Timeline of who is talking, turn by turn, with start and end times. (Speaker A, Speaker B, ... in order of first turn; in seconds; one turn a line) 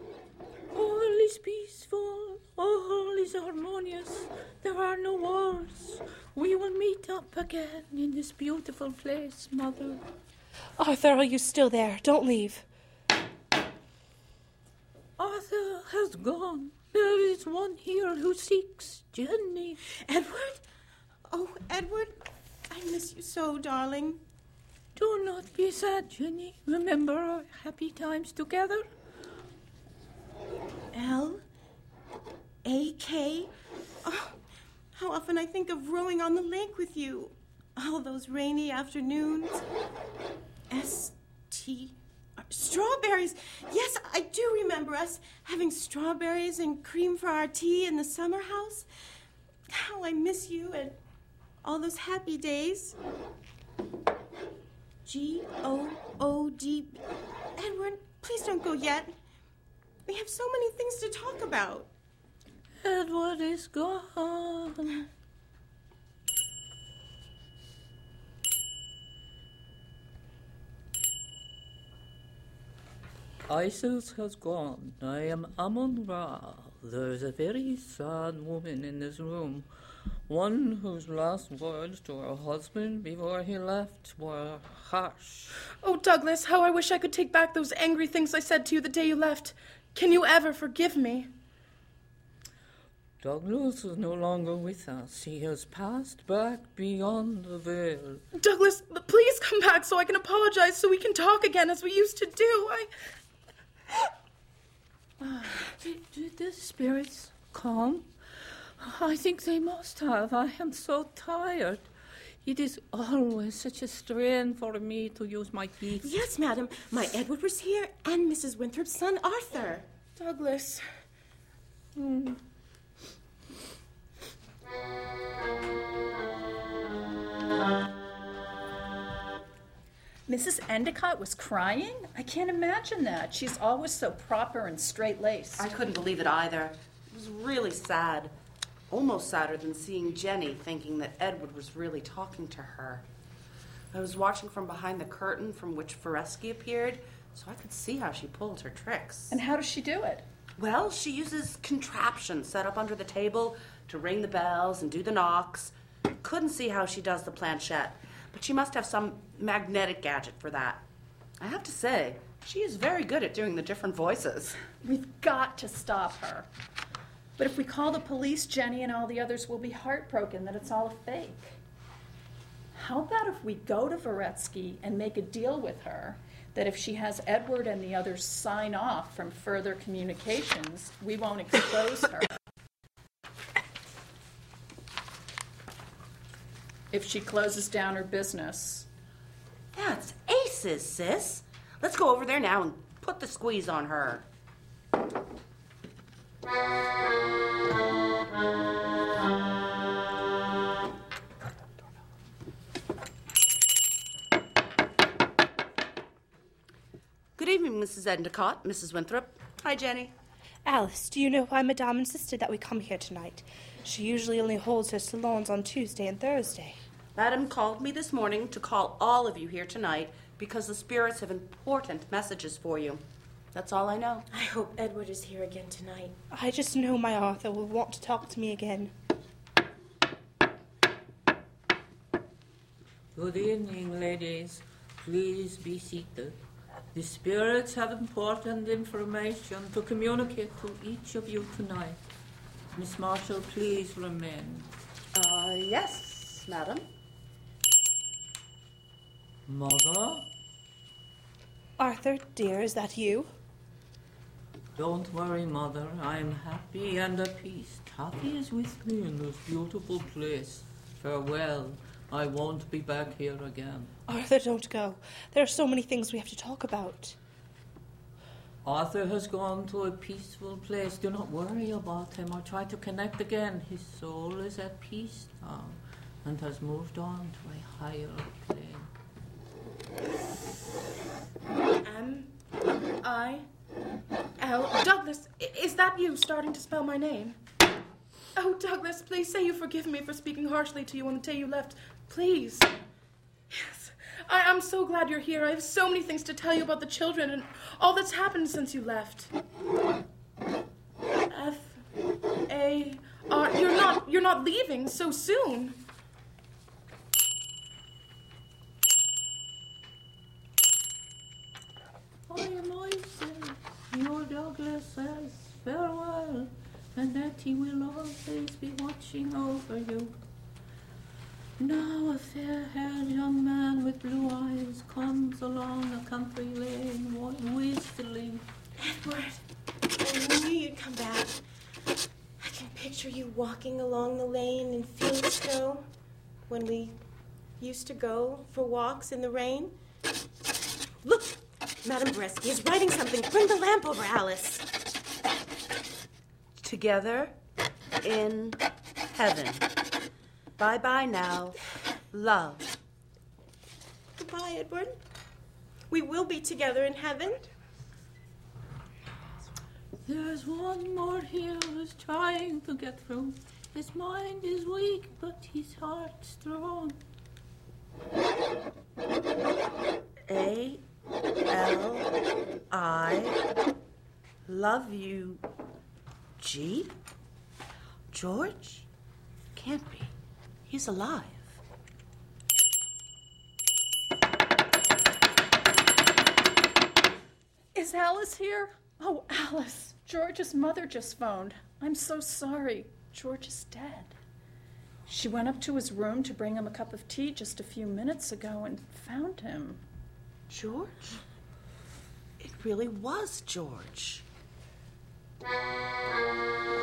Speaker A: 0.7-10.0
Speaker B: 10.8-12.6
Speaker A: 15.2-19.8
Speaker C: 19.8-20.6
Speaker C: 21.3-24.2
Speaker A: 24.9-28.8
Speaker C: 30.9-31.4
Speaker C: 32.6-33.5
Speaker C: 34.0-34.4
Speaker C: 34.9-39.6
Speaker C: 40.7-48.9
Speaker C: 49.7-51.0
Speaker C: 51.6-53.0
Speaker C: 55.0-57.0
Speaker C: 57.5-59.2
Speaker C: 60.0-61.9
Speaker A: 62.8-65.0
Speaker A: 73.5-79.7
Speaker A: 80.3-85.6
Speaker D: 85.8-91.3
Speaker A: 93.2-98.2
Speaker D: 98.3-102.9
Speaker A: 105.2-108.0
Speaker A: 108.8-111.9
Speaker A: 112.4-116.1
Speaker C: 116.0-119.9
Speaker D: 120.2-120.8
Speaker A: 122.0-122.4
Speaker E: 130.3-135.7
Speaker F: 135.6-138.3
Speaker F: 138.9-143.0
Speaker F: 143.9-149.4
Speaker E: 149.3-150.2
Speaker F: 150.6-160.8
Speaker F: 161.4-164.6
Speaker E: 164.8-166.5
Speaker E: 167.4-171.6
Speaker E: 172.7-182.3
Speaker E: 186.9-188.9
Speaker F: 189.7-194.2
Speaker F: 207.4-210.1
Speaker B: 210.7-216.8
Speaker F: 217.1-223.0
Speaker F: 223.5-224.2
Speaker C: 224.3-226.2
Speaker B: 226.3-228.9
Speaker A: 233.1-236.3
Speaker A: 236.9-242.0
Speaker A: 242.7-244.7
Speaker F: 245.1-246.8
Speaker A: 249.5-250.3
Speaker B: 251.8-253.3
Speaker A: 254.8-263.9
Speaker B: 264.1-267.2
Speaker A: 268.6-278.9
Speaker D: 281.8-282.3
Speaker D: 283.0-283.4
Speaker D: 284.4-287.4
Speaker D: 288.4-292.7
Speaker D: 293.5-299.3
Speaker D: 301.3-301.8
Speaker D: 302.5-305.8
Speaker A: 312.3-320.1
Speaker A: 321.6-328.4
Speaker C: 328.8-331.4
Speaker C: 332.4-335.9
Speaker C: 336.5-337.0
Speaker C: 337.6-339.8
Speaker C: 341.0-344.7
Speaker F: 346.6-347.3
Speaker F: 348.0-349.7
Speaker F: 350.6-351.6
Speaker F: 352.1-352.6
Speaker C: 354.1-355.0
Speaker C: 355.9-357.5
Speaker A: 360.0-367.0
Speaker F: 370.3-370.8
Speaker F: 371.5-372.1
Speaker F: 372.7-373.4
Speaker F: 374.4-375.4
Speaker F: 376.4-377.0
Speaker F: 378.1-378.9
Speaker F: 379.5-380.1
Speaker F: 380.7-381.6
Speaker E: 387.7-394.1
Speaker E: 395.1-399.8
Speaker F: 400.5-401.2
Speaker F: 402.4-404.2